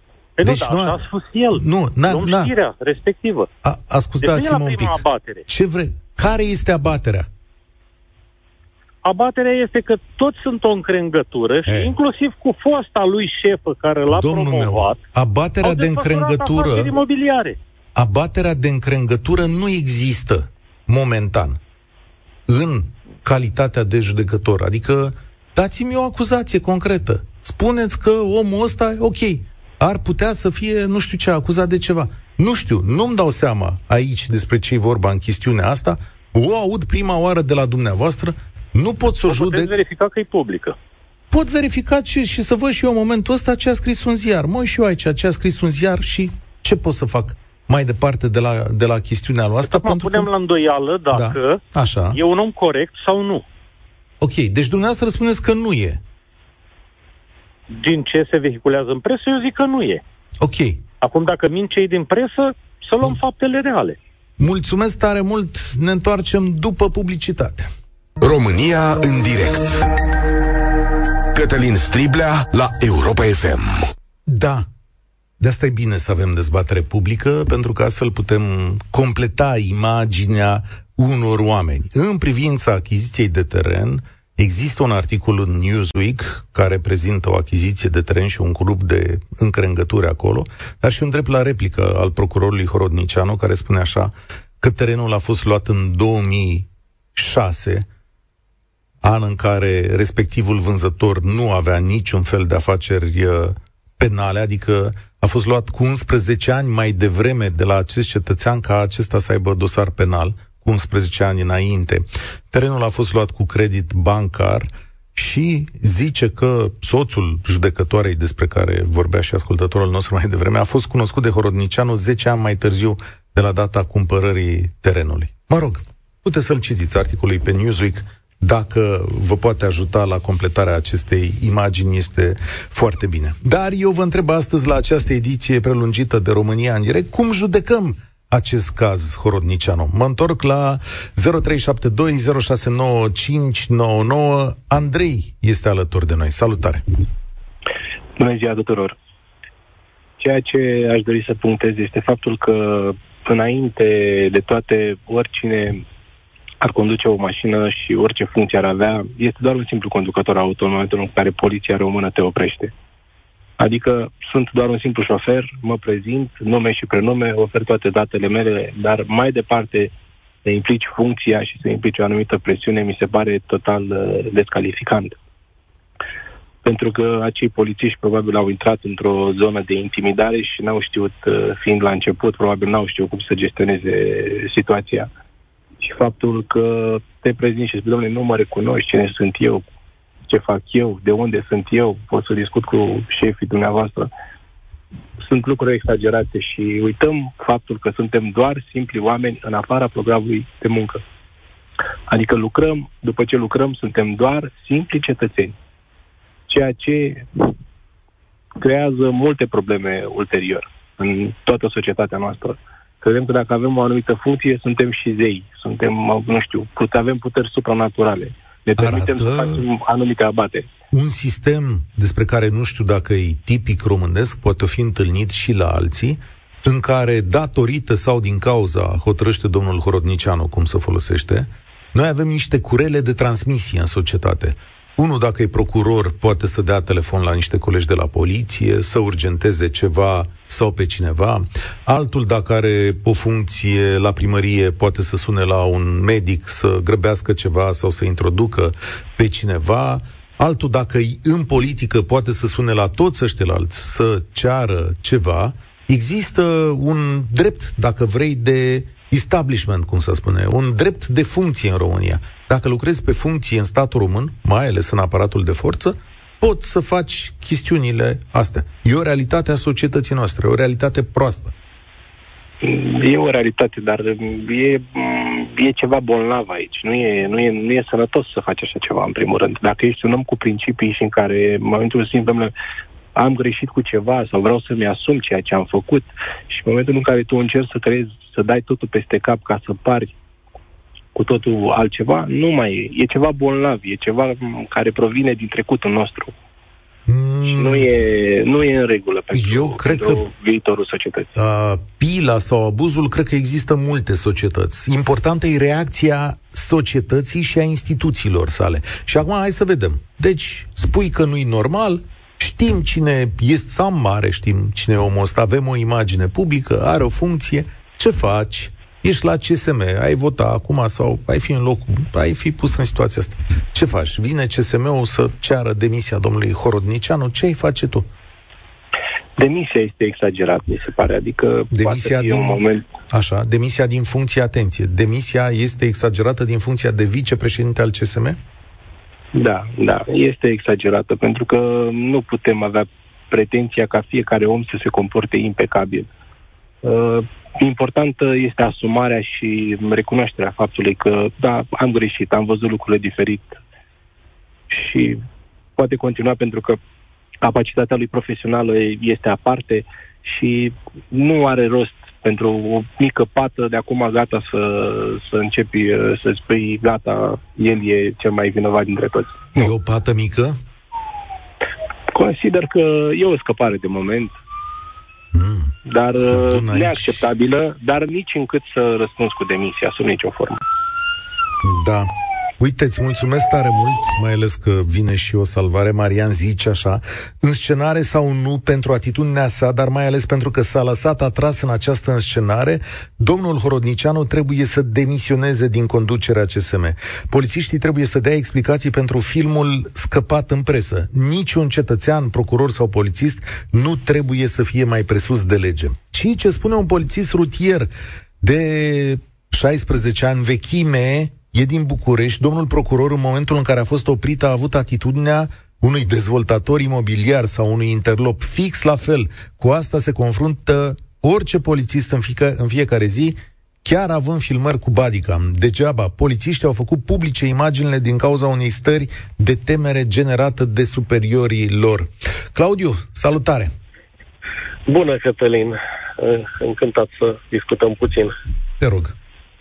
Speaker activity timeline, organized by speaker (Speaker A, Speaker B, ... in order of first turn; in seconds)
Speaker A: 0.4-3.5, 4.2-5.5, 9.0-15.0, 15.6-17.6, 39.3-40.8, 49.6-53.5, 57.7-60.0, 61.0-64.0
Speaker B: 0.4-2.5, 3.6-7.3, 11.7-11.9, 14.1-16.9, 17.9-21.6, 22.5-39.7, 41.3-50.3, 51.1-52.2, 54.2-56.0, 60.4-60.8, 64.4-67.7, 74.3-74.7, 75.4-97.9, 99.0-146.8, 218.8-219.6, 220.9-271.5, 297.1-297.9, 299.3-300.2, 301.4-328.1, 331.7-338.4, 369.6-370.6, 375.3-377.3, 381.6-433.7, 438.8-439.1
Speaker C: 68.2-69.9, 71.3-73.8
Speaker D: 148.2-149.0, 150.2-155.8, 156.6-162.7, 163.6-169.9, 170.4-175.2, 176.6-185.1, 185.8-189.7, 190.3-194.1, 195.2-201.0, 202.1-205.6, 206.5-207.3, 208.6-220.7, 272.6-282.5, 283.1-290.2, 291.1-296.3, 297.5-301.3, 329.4-332.9, 339.3-346.1, 346.8-353.6, 354.7-355.2, 355.8-356.8, 357.4-369.7, 372.1-374.4, 375.9-380.6
Speaker E: 434.9-438.3